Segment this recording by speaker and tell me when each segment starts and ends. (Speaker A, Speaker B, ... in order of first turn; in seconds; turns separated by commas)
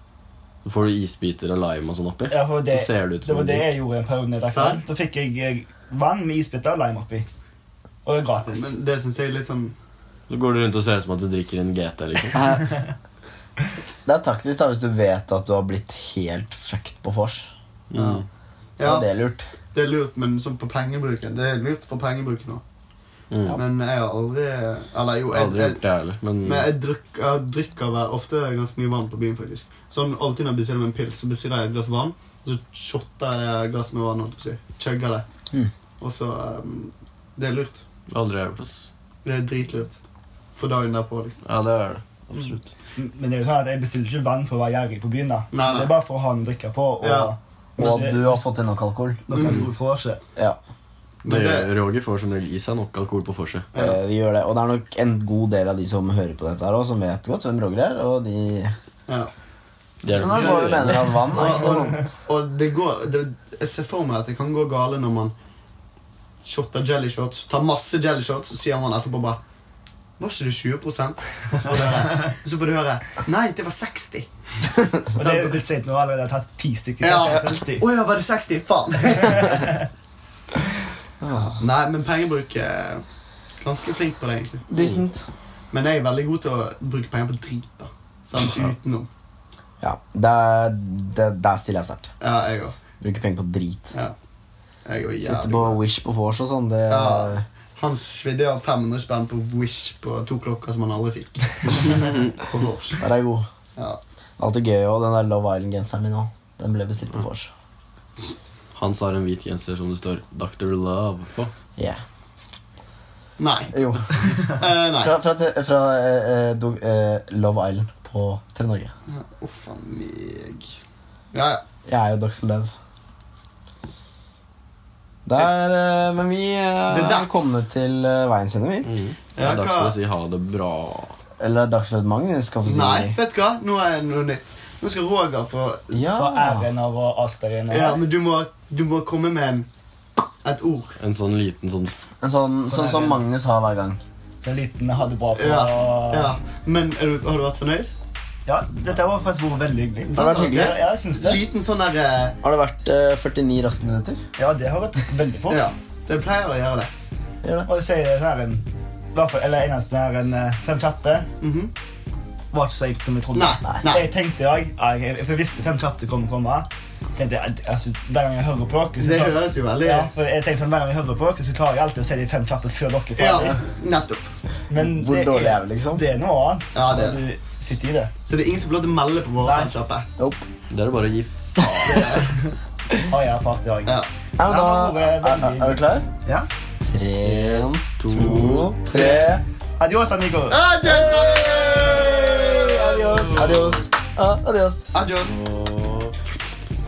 Speaker A: 0.6-3.7, Speaker B: 2.3-7.3, Speaker C: 4.4-4.8, Speaker B: 8.1-8.7, Speaker C: 8.5-9.7, Speaker A: 10.3-12.5, Speaker D: 12.3-12.7, Speaker D: 14.1-17.5, Speaker A: 17.9-18.2, Speaker C: 17.9-18.2, Speaker C: 18.8-19.1, Speaker D: 18.8-19.5, Speaker C: 19.7-22.6, Speaker A: 23.3-23.6, Speaker C: 23.5-25.8, Speaker A: 25.3-26.7, Speaker C: 26.4-35.2, Speaker C: 36.0-37.8, Speaker A: 38.1-38.9, Speaker C: 39.2-40.0, Speaker C: 40.5-41.4, Speaker A: 41.5-42.6, Speaker B: 43.0-48.5, Speaker C: 45.5-45.9, Speaker C: 47.0-48.2, Speaker D: 47.8-49.5, Speaker B: 49.3-50.2, Speaker C: 49.3-49.6, Speaker C: 51.2-51.7, Speaker A: 51.2-53.7, Speaker C: 53.7-54.0, Speaker D: 53.7-58.8, Speaker A: 60.0-61.2, Speaker D: 60.1-62.1, Speaker C: 60.2-65.3, Speaker B: 61.3-62.1, Speaker C: 66.4-69.4, Speaker C: 70.2-74.3, Speaker B: 75.2-77.9, Speaker C: 75.2-75.6, Speaker C: 77.0-79.6, Speaker B: 79.1-79.8, Speaker D: 81.2-81.6, Speaker C: 81.3-83.0, Speaker C: 83.6-84.6, Speaker D: 84.7-85.3, Speaker A: 84.8-85.0, Speaker C: 85.7-89.1, Speaker D: 89.8-92.1, Speaker C: 92.2-92.8, Speaker D: 93.0-93.9, Speaker C: 94.9-95.8, Speaker D: 95.2-97.4, Speaker C: 96.9-103.0, Speaker D: 103.0-103.5, Speaker D: 104.4-107.5, Speaker A: 108.8-111.5, Speaker D: 111.8-112.0, Speaker C: 113.4-115.1, Speaker D: 113.7-114.4, Speaker D: 115.0-118.9, Speaker C: 119.1-120.7, Speaker C: 121.3-121.6, Speaker D: 121.9-122.7, Speaker D: 125.3-128.9, Speaker C: 126.9-127.6, Speaker A: 128.8-131.2, Speaker C: 129.4-130.0, Speaker D: 131.4-133.2, Speaker C: 132.7-135.9, Speaker D: 135.9-136.7, Speaker B: 136.1-138.0, Speaker C: 137.7-139.7, Speaker C: 140.4-140.9, Speaker A: 141.0-142.0, Speaker D: 142.2-144.0, Speaker B: 142.6-143.2, Speaker B: 144.4-146.3, Speaker C: 145.3-147.9, Speaker B: 148.5-151.4, Speaker C: 150.1-152.4, Speaker D: 150.1-150.8, Speaker D: 152.4-154.2, Speaker B: 154.4-155.7, Speaker C: 155.5-156.9, Speaker D: 157.4-157.7, Speaker B: 157.7-161.3, Speaker C: 161.4-161.7, Speaker B: 162.5-173.6, Speaker C: 163.3-164.1, Speaker C: 169.0-170.1, Speaker C: 173.2-174.3, Speaker B: 174.7-178.1, Speaker D: 174.8-176.0, Speaker C: 176.7-177.2, Speaker C: 178.2-180.1, Speaker B: 179.4-179.7, Speaker D: 180.2-180.5, Speaker A: 180.7-182.2, Speaker C: 181.8-182.3, Speaker B: 181.9-182.5, Speaker B: 183.1-186.5, Speaker D: 184.4-186.1, Speaker D: 186.8-189.4, Speaker A: 187.2-188.8, Speaker C: 188.9-189.3, Speaker B: 188.9-190.6, Speaker C: 190.5-193.8, Speaker D: 190.8-194.9, Speaker A: 193.1-193.5, Speaker C: 194.9-195.5, Speaker A: 195.2-196.1